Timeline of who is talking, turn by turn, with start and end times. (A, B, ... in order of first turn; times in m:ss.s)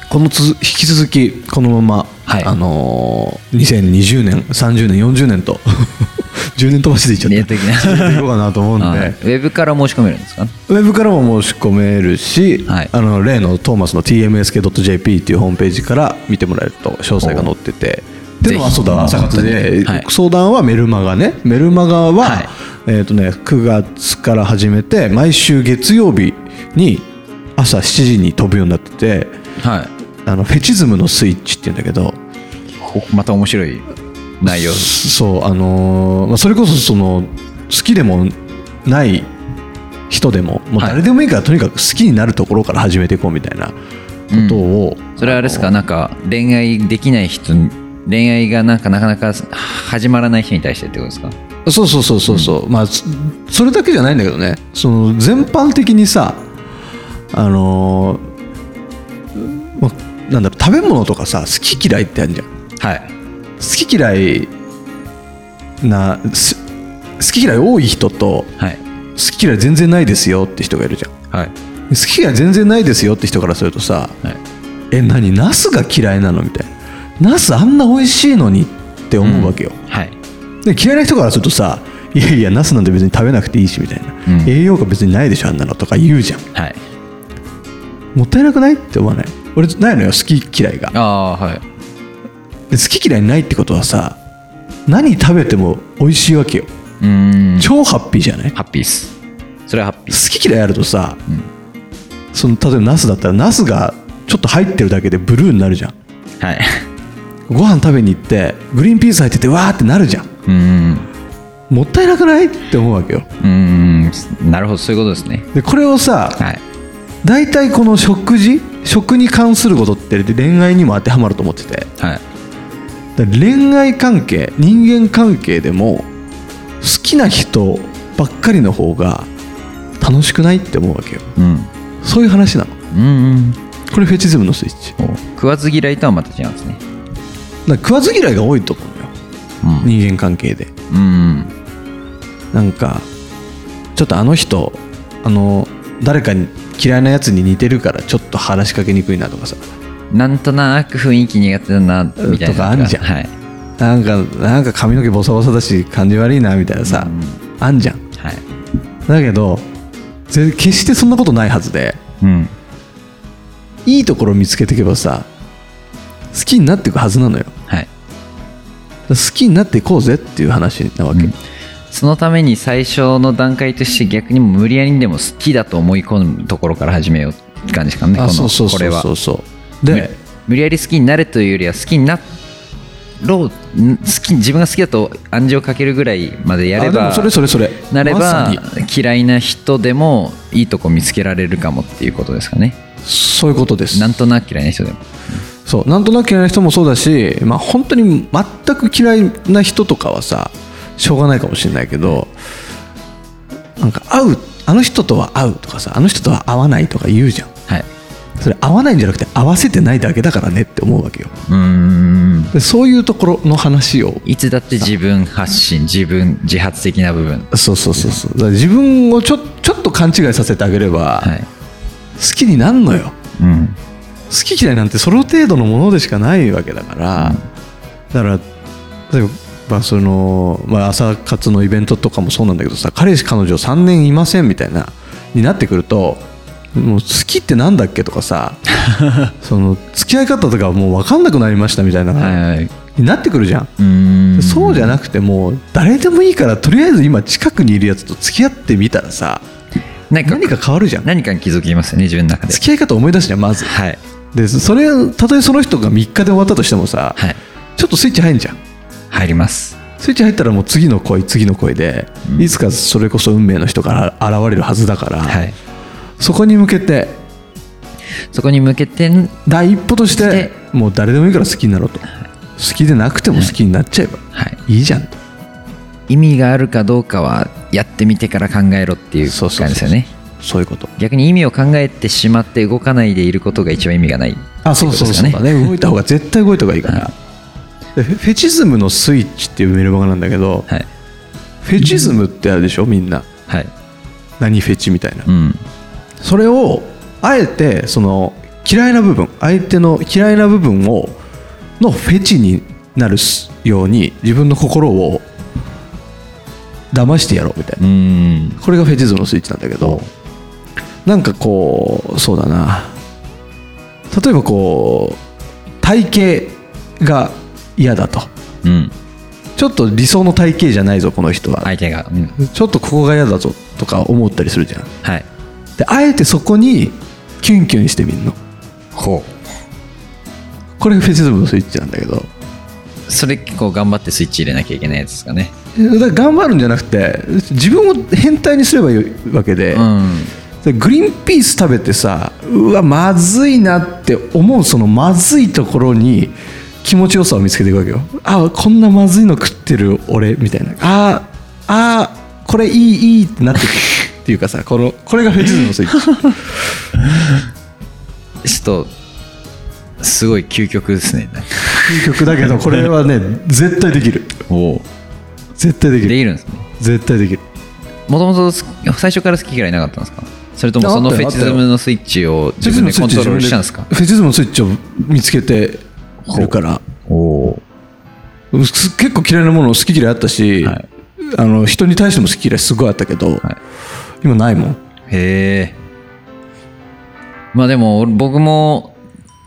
0:00.1-0:09.2 A
0:02.3-0:02.5 B
0:07.2-0:10.5 B
0:10.7-0:29.3 A
0:12.7-0:12.9 B
0:17.2-0:17.5 B
0:18.4-0:20.1 B
0:22.2-0:22.5 B
0:29.6-0:29.9 B
0:30.3-0:32.2 A
0:32.8-0:33.9 B
0:34.4-0:35.0 B
0:34.4-0:39.3 A
0:40.1-0:43.8 A
0:44.3-0:45.8 A
0:44.3-0:51.4 B
0:51.7-0:56.4 A
0:52.3-0:52.6 B
0:57.3-0:58.2 A
0:59.3-1:02.5 A
1:02.8-1:03.1 B
1:03.6-1:04.5 A
1:05.8-1:06.6 A
1:07.2-1:08.5 A
1:09.2-1:11.1 A
1:11.9-1:14.2 A
1:14.9-1:19.8 A
1:19.2-1:20.2 B
1:20.6-1:26.4 A
1:24.3-1:24.5 B
1:28.2-1:31.0 A
1:30.9-1:31.6 B
1:32.7-1:34.2 A
1:34.9-1:36.7 A
1:37.0-1:37.7 B
1:37.6-1:38.5 A
1:38.5-1:39.1 B
1:39.7-1:40.2 B
1:40.1-1:41.2 A
1:42.3-1:46.0 A
1:46.4-1:46.9 B
1:47.5-1:50.3 A
1:50.5-1:51.1 B
1:51.7-1:53.3 A
1:53.4-1:55.5 B
1:55.5-1:56.4 A
1:56.4-1:56.6 B
1:57.2-2:01.9 A
2:03.2-2:06.1 A
2:06.8-2:09.3 A
2:10.0-2:11.3 A
2:11.4-2:11.7 B
2:12.0-2:12.8 A
2:12.9-2:13.6 B
2:13.9-2:15.0 A
2:15.0-2:16.8 B
2:17.7-2:19.1 A
2:19.6-2:19.9 B
2:19.8-2:20.7 A
2:20.9-2:21.5 B
2:22.5-2:23.1 A
2:24.0-2:29.6 A
2:30.1-2:33.3 B
2:32.2-2:33.0 A
2:33.8-2:38.0 A
2:36.8-2:37.4 B
2:38.2-2:38.4 B
2:39.1-2:39.7 A
2:40.3-2:42.0 A
2:42.2-2:42.5 B
2:43.9-2:45.3 A
2:46.3-2:47.5 A
2:49.1-2:51.3 A
2:51.9-2:59.1 B
2:58.1-3:00.1 A
2:59.9-3:02.2 B
3:03.2-3:07.4 B
3:06.8-3:08.6 A
3:07.9-3:12.8 B
3:13.0-3:14.1 A
3:13.9-3:15.4 B
3:15.7-3:22.3 A
3:23.8-3:27.5 A
3:28.4-3:31.3 A
3:31.5-3:32.5 B
3:32.5-3:35.0 A
3:34.2-3:38.2 B
3:37.5-3:41.3 A
3:41.2-3:41.5 B
3:42.2-3:43.1 A
3:43.4-3:43.8 B
3:44.3-3:47.4 A
3:47.2-3:47.4 B
3:48.1-3:48.4 A
3:49.1-3:58.6 A
3:58.7-3:59.3 B
3:59.4-4:02.4 A
4:02.2-4:02.7 B
4:03.0-4:03.7 A
4:03.8-4:05.0 B
4:04.4-4:09.4 A
4:10.1-4:12.6 B
4:10.2-4:11.1 A
4:12.5-4:13.7 A
4:13.6-4:14.0 B
4:14.3-4:17.2 A
4:17.8-4:18.6 A
4:19.1-4:19.8 B
4:20.0-4:25.5 A
4:22.2-4:22.5 B
4:25.2-4:25.6 B
4:26.2-4:27.2 A
4:28.3-4:29.4 B
4:29.5-4:32.0 A
4:30.1-4:30.5 B
4:32.6-4:35.2 A
4:34.3-4:34.6 B
4:36.1-4:40.1 B
4:39.2-4:40.9 A
4:41.0-4:45.8 B
4:44.6-4:47.1 A
4:46.8-4:47.1 B
4:48.0-4:50.7 A
4:51.6-4:53.3 A
4:51.8-4:52.1 B
4:54.4-4:55.3 A
4:55.3-4:55.6 B
4:56.2-5:01.2 A
5:01.8-5:05.2 A
5:06.9-5:07.8 A
5:07.8-5:08.6 B
5:08.6-5:10.0 A
5:09.8-5:10.1 B
5:11.0-5:13.0 A
5:14.1-5:15.2 A
5:15.8-5:18.3 A
5:18.6-5:18.9 B
5:19.6-5:21.7 A
5:21.6-5:22.4 B
5:22.4-5:24.9 A
5:25.8-5:28.4 A
5:29.0-5:29.3 B
5:30.8-5:32.3 A
5:33.1-5:35.5 B
5:35.8-5:39.9 A
5:39.7-5:40.3 B
5:40.6-5:56.4 A
5:58.4-5:58.9 B
6:00.0-6:02.9 B
6:01.8-6:04.4 A
6:04.5-6:04.9 B
6:05.6-6:06.2 A
6:06.0-6:06.6 B
6:06.8-6:07.4 A
6:08.1-6:13.9 B
6:10.8-6:11.7 A
6:12.6-6:16.8 A
6:16.3-6:16.6 B
6:17.1-6:17.6 B
6:18.5-6:23.4 A
6:24.2-6:24.8 A
6:25.1-6:25.8 B
6:27.5-6:29.0 B